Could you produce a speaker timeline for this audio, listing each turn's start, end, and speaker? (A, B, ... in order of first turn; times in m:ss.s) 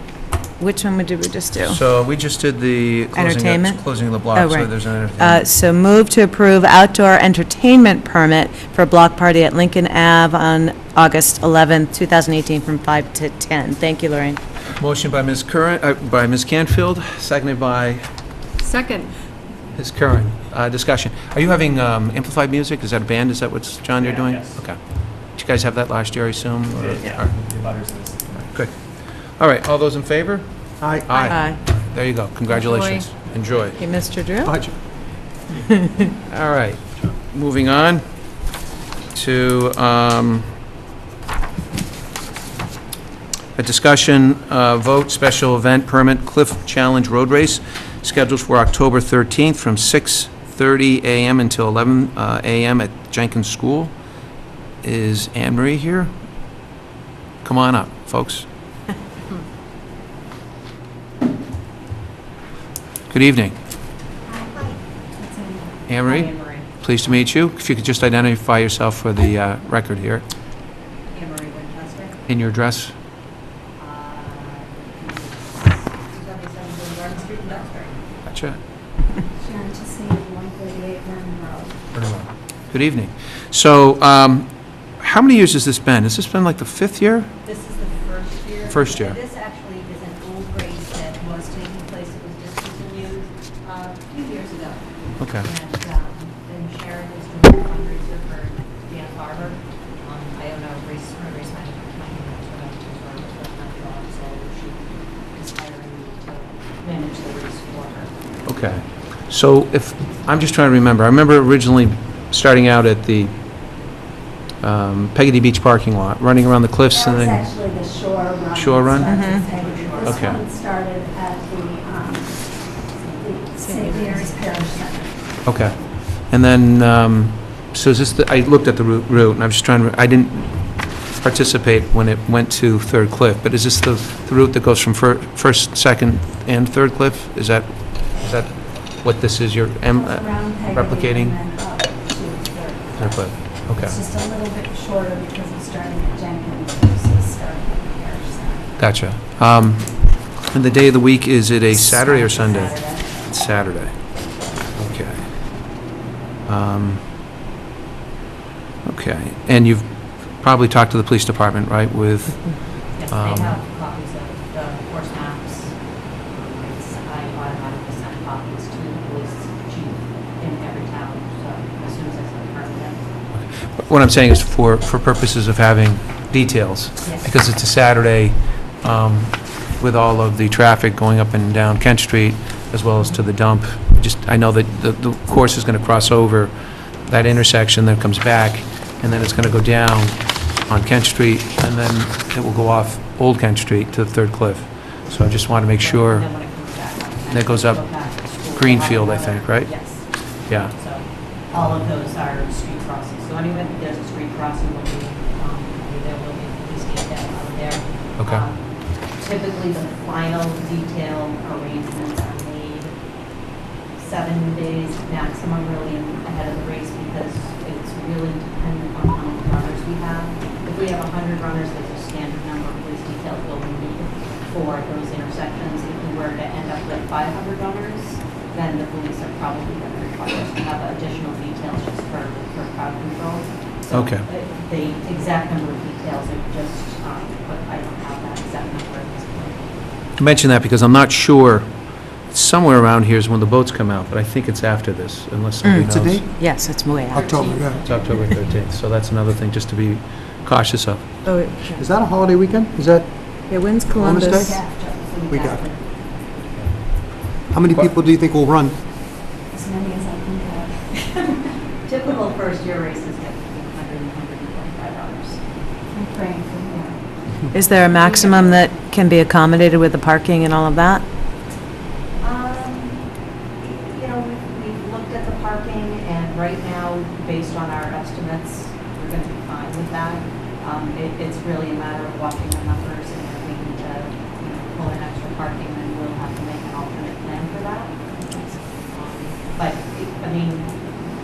0:00.6-0:01.8 A
0:01.6-0:05.4 B
0:03.1-0:14.4 A
0:14.8-0:18.0 B
0:19.8-0:27.4 B
0:24.0-0:24.6 C
0:26.7-0:28.4 C
0:28.5-0:33.8 B
0:30.8-0:31.3 D
0:31.2-0:31.6 A
0:32.6-0:33.0 A
0:33.8-0:34.5 A
0:34.4-0:34.8 D
0:35.7-0:36.1 A
0:36.3-0:38.0 B
0:39.1-0:40.5 B
0:43.6-0:53.9 B
0:54.8-0:56.1 B
0:57.4-0:58.5 B
1:03.1-1:03.6 B
1:04.3-1:04.7 E
1:05.1-1:05.8 F
1:05.9-1:10.2 B
1:06.0-1:06.8 E
1:11.1-1:12.2 E
1:12.3-1:12.9 B
1:13.8-1:18.0 E
1:18.3-1:18.6 B
1:19.4-1:21.8 F
1:21.9-1:27.3 B
1:27.4-1:48.1 E
1:28.7-1:29.2 B
1:35.2-1:35.5 B
1:48.4-1:53.3 B
1:54.6-1:57.5 B
1:56.9-2:05.2 F
1:58.5-1:59.1 B
1:59.0-2:00.4 E
1:59.1-1:59.5 A
2:00.0-2:00.4 B
2:02.9-2:03.3 E
2:03.6-2:04.5 A
2:05.4-2:21.4 B
2:19.9-2:28.7 F
2:23.0-2:24.0 B
2:28.8-2:34.2 B
2:31.7-2:33.0 F
2:32.6-2:33.0 E
2:34.8-2:35.3 B
2:36.5-2:37.0 B
2:38.9-2:43.6 B
2:43.0-2:45.8 E
2:46.3-2:53.0 E
2:53.4-3:16.3 B
2:57.0-2:57.3 E
3:15.8-3:20.1 E
3:17.3-3:19.7 B
3:20.5-3:20.7 B
3:20.6-3:32.9 E
3:34.0-3:59.7 E
3:53.9-3:54.3 B
4:00.2-4:06.2 B
4:05.6-4:07.4 A
4:05.7-4:07.9 D
4:07.1-4:08.3 E
4:07.4-4:11.2 B
4:11.2-4:11.8 A
4:11.8-4:13.1 D
4:13.5-4:14.5 A
4:13.7-4:14.6 D
4:14.3-4:15.1 F
4:15.0-4:15.9 E
4:15.3-4:15.6 D
4:17.5-4:18.8 D
4:19.5-4:21.4 F
4:21.8-4:25.4 E
4:25.9-4:26.9 F
4:27.5-4:31.0 A
4:27.9-4:28.7 E
4:32.2-4:33.1 E
4:33.6-4:48.0 E
4:48.2-4:48.5 F
4:48.9-4:50.9 E